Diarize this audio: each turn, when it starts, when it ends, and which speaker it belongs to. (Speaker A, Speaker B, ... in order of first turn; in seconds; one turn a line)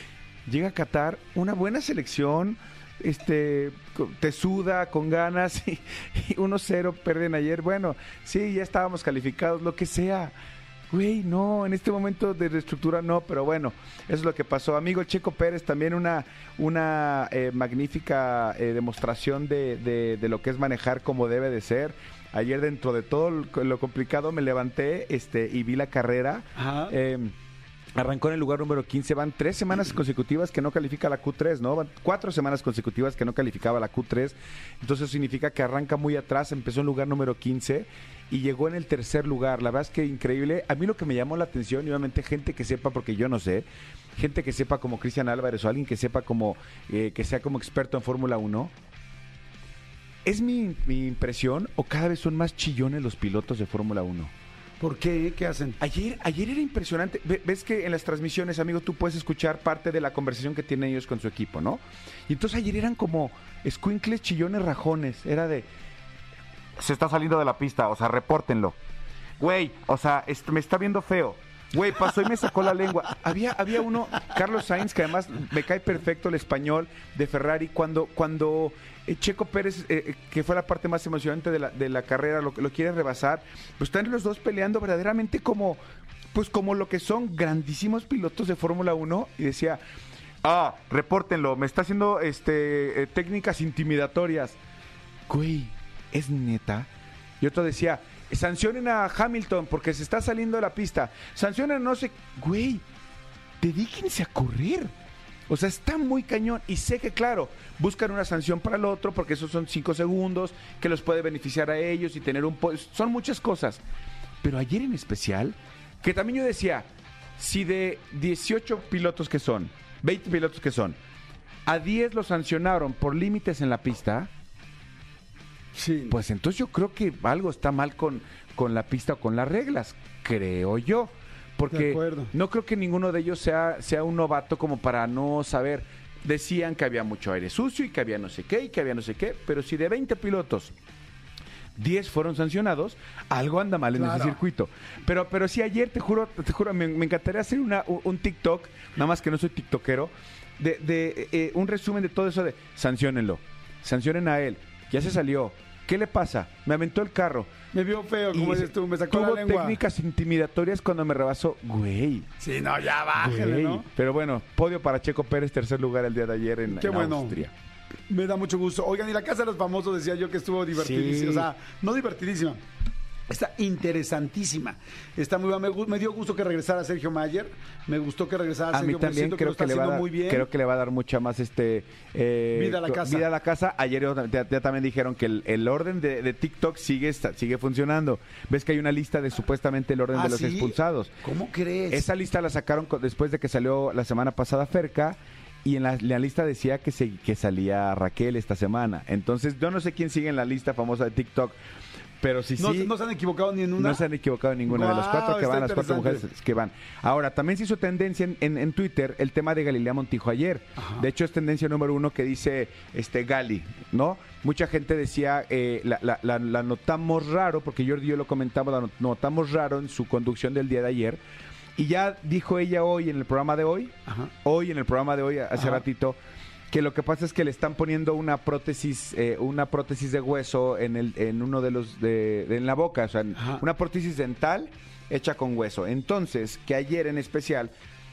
Speaker A: 0.5-10.3
Speaker A: 10.9-27.3
Speaker B: 26.6-26.9
Speaker A: 27.9-48.7
Speaker A: 50.2-54.3
Speaker B: 54.8-55.8
Speaker A: 55.8-65.7
Speaker A: 66.8-68.8
Speaker A: 69.4-85.8
Speaker A: 86.3-89.8
Speaker A: 90.4-94.6
Speaker A: 95.3-96.9
Speaker A: 97.4-102.8
Speaker A: 103.6-104.9
Speaker A: 105.5-113.8
Speaker A: 114.4-121.0
Speaker A: 121.7-124.3
Speaker B: 125.7-126.2
Speaker A: 126.1-140.7
Speaker B: 131.7-132.3
Speaker A: 141.8-157.5
Speaker B: 143.9-144.4
Speaker B: 157.7-159.8
Speaker A: 158.3-162.3
Speaker B: 162.4-163.8
Speaker A: 163.2-167.5
Speaker B: 166.7-167.4
Speaker B: 168.1-172.6
Speaker A: 170.7-171.5
Speaker B: 173.3-180.5
Speaker A: 178.7-191.1
Speaker B: 182.5-183.2
Speaker B: 190.1-192.1
Speaker A: 191.9-201.6
Speaker A: 202.2-202.9
Speaker B: 202.6-204.0
Speaker A: 203.8-221.2
Speaker B: 204.7-206.2
Speaker B: 210.8-211.0
Speaker A: 221.8-226.2
Speaker B: 225.6-225.8
Speaker A: 226.7-237.7
Speaker B: 233.3-233.6